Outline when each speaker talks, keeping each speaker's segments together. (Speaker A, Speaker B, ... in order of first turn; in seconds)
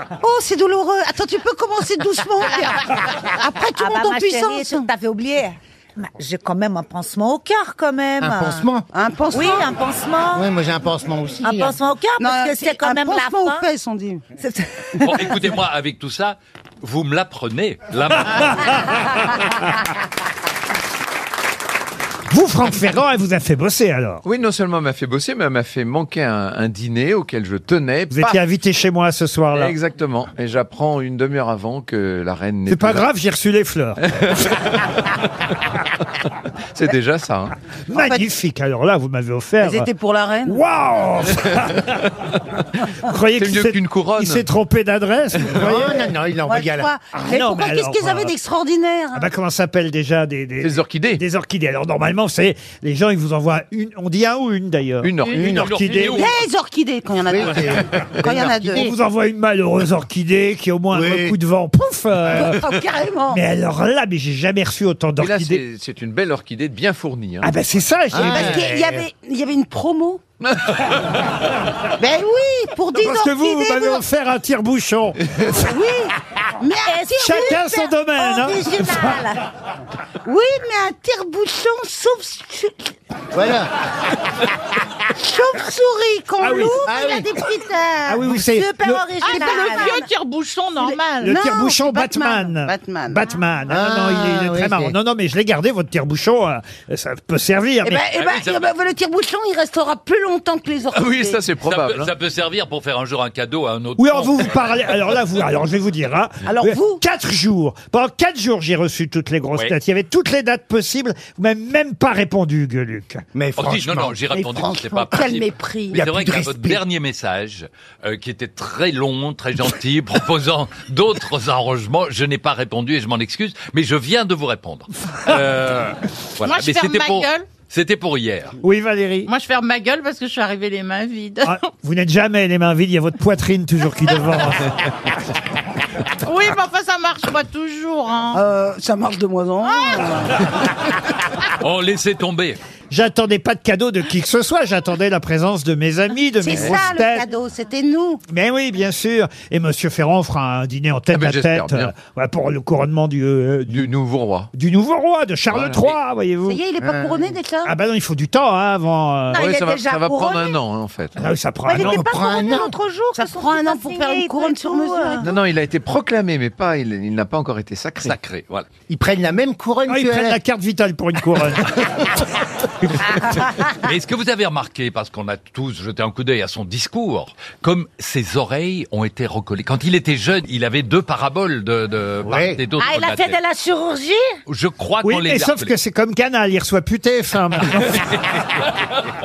Speaker A: 0.2-4.9, 8.9-9.7, 12.2-14.3, 37.9-38.2, 39.6-40.6, 46.5-49.3, 56.0-58.9, 62.3-63.4, 68.2-70.2, 72.0-74.0, 75.5-77.8, 80.2-83.0, 85.1-88.5, 89.2-90.1, 90.8-93.2, 97.8-101.5, 106.4-107.0, 114.3-116.0, 138.3-140.5, 146.4-148.2, 156.4-157.7, 163.1-165.3
Speaker B: 3.8-8.7, 9.3-10.5, 11.4-13.7, 14.3-15.3, 76.8-79.4, 88.5-90.0, 159.3-160.6, 161.7-165.3, 182.8-184.2
Speaker C: 8.2-8.9, 10.3-11.8, 45.6-46.9, 57.3-58.9, 60.9-61.4, 68.1-69.1, 83.3-83.7, 86.8-87.3, 93.7-95.0, 113.3-114.2, 115.9-116.8, 156.8-157.2, 161.8-162.7, 168.9-170.4, 182.2-182.6
Speaker D: 15.0-19.2, 55.4-56.5, 98.0-98.7, 101.6-104.7, 113.6-128.6, 141.6-142.6, 168.0-168.7, 173.6-183.4, 184.5-185.7
Speaker E: 22.3-24.2, 28.1-29.8, 32.7-34.0, 37.9-39.9, 40.4-42.1, 42.7-46.1, 47.1-48.4, 49.1-56.3, 58.7-62.6, 63.3-65.6, 67.4-68.6, 73.0-75.7, 77.2-79.2, 86.4-86.8, 88.0-89.1, 91.2-98.0, 104.0-113.2, 128.6-129.3, 131.4-134.9, 142.9-147.2, 148.3-153.9, 154.5-156.6, 157.6-159.4, 161.2-162.1, 169.9-172.1, 185.0-188.2
Speaker F: 24.2-28.4, 29.5-33.0, 34.1-34.7, 36.7-37.5, 43.4-44.5, 50.6-51.2, 55.0-56.0, 65.2-67.5, 70.4-70.7, 100.9-102.1, 151.1-151.9, 153.7-154.5, 155.5-155.9, 159.3-161.3, 165.2-168.2
Speaker G: 89.4-91.2, 126.4-127.5, 129.3-131.6, 136.2-138.4, 139.7-140.0